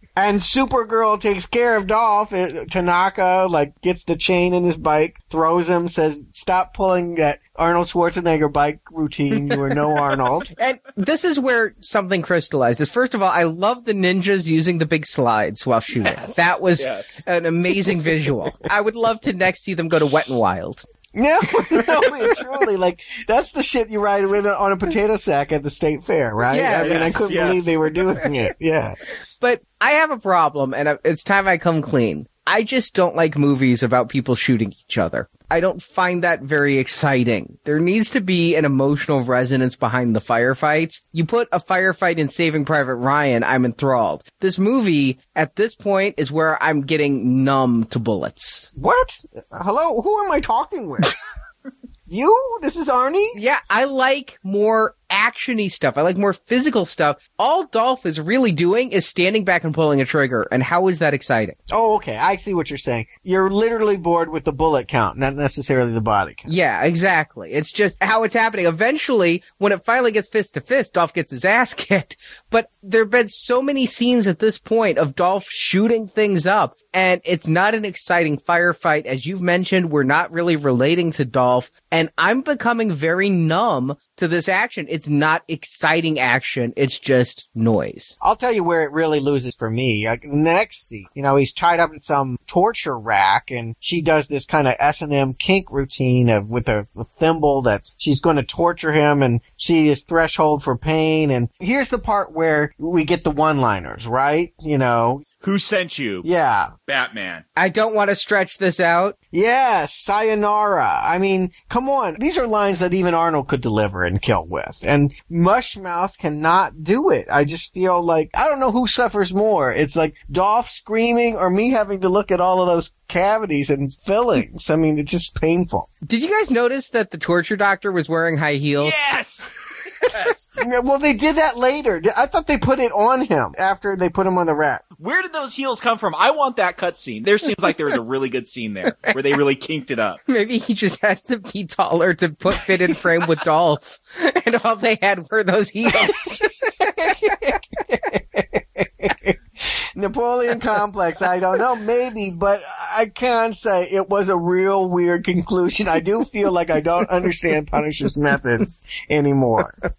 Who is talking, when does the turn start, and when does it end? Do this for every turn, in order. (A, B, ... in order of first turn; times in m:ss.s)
0:00.2-0:10.5 A
0:10.6-0:20.8 B
0:16.0-0:17.2 C
0:21.1-0:29.0 A
0:26.5-0:27.2 B
0:26.8-0:27.7 C
0:29.4-0:48.7 B
0:48.8-0:51.1 A
0:52.1-0:53.4 A
0:53.3-1:01.6 B
1:01.7-1:06.5 A
1:06.5-1:28.2 B
1:28.2-1:45.2 A
1:45.4-1:46.2 C
1:46.2-1:46.7 A
1:46.9-1:47.4 C
1:47.6-1:49.1 B
1:49.3-2:05.9 A
2:06.0-2:08.9 B
2:08.8-2:09.5 C
2:10.0-2:10.4 C
2:10.6-2:14.8 A
2:15.0-2:20.2 C
2:20.3-2:27.3 B
2:27.0-2:39.8 A